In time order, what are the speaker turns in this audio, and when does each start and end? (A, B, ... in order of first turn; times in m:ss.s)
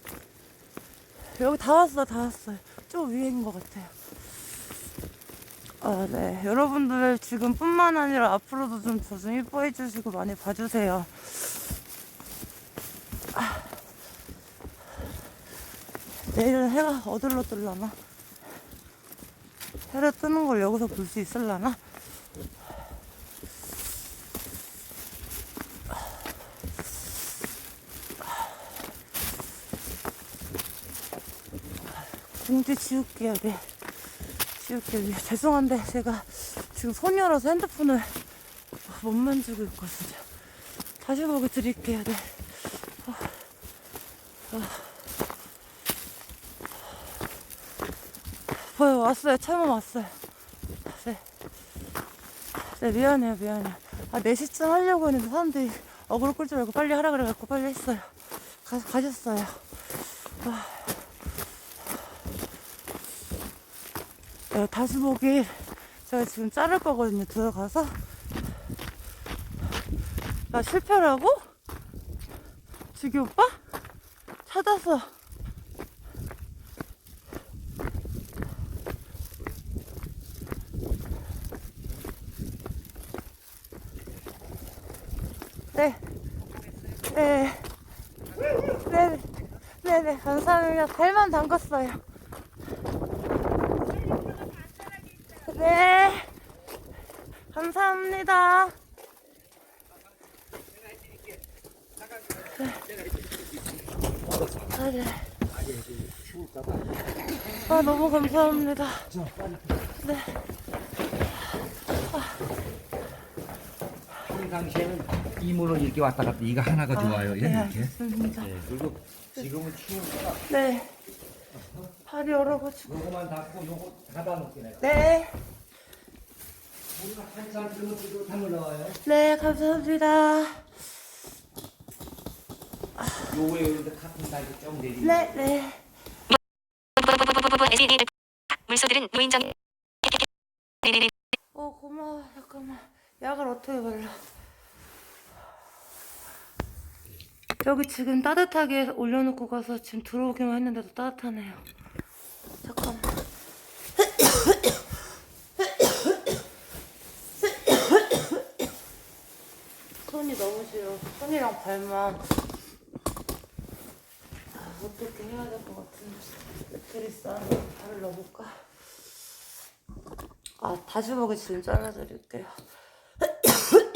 0:01.3-0:03.9 A
0:05.8-0:11.5 A
0:13.3-0:13.7 A
0:16.3-0:18.0 A
0:19.9-0:21.8 A
0:32.4-0:33.7 A
0:34.6-0:38.2 A
0:38.8-0:40.3 A
0:41.0-0:43.4 A
0:44.5-0:44.9 A
0:48.6-0:50.2 A
0:50.8-0:51.2 A
0:52.6-0:58.1 A
0:58.6-1:01.0 A
1:04.5-1:08.0 A
1:10.5-1:11.5 A
1:12.9-1:13.6 A
1:14.4-1:15.1 A
1:25.7-1:26.0 A
1:27.0-1:27.7 A
1:28.6-1:32.0 A
1:35.3-1:36.3 A
1:37.5-1:38.8 A
1:40.9-1:41.2 B
1:42.1-1:44.7 B
1:42.5-1:42.8 A
1:44.7-1:45.3 A
1:45.5-1:47.7 B
1:47.6-1:49.1 A
1:49.1-1:49.7 B
1:50.0-1:50.4 A
1:54.2-2:00.4 B
1:56.9-1:58.6 A
2:00.5-2:01.0 A
2:01.5-2:01.9 B
2:02.1-2:02.9 A
2:02.8-2:04.9 B
2:04.8-2:05.3 A
2:06.9-2:09.0 B
2:09.0-2:10.7 A
2:13.2-2:15.5 B
2:15.0-2:15.8 A
2:17.0-2:20.3 C
2:20.8-2:21.1 C
2:21.5-2:24.2 A
2:27.6-2:31.6 A
2:32.6-2:33.2 A
2:40.0-2:42.2 A
2:44.5-2:48.7 A
2:50.6-2:52.5 A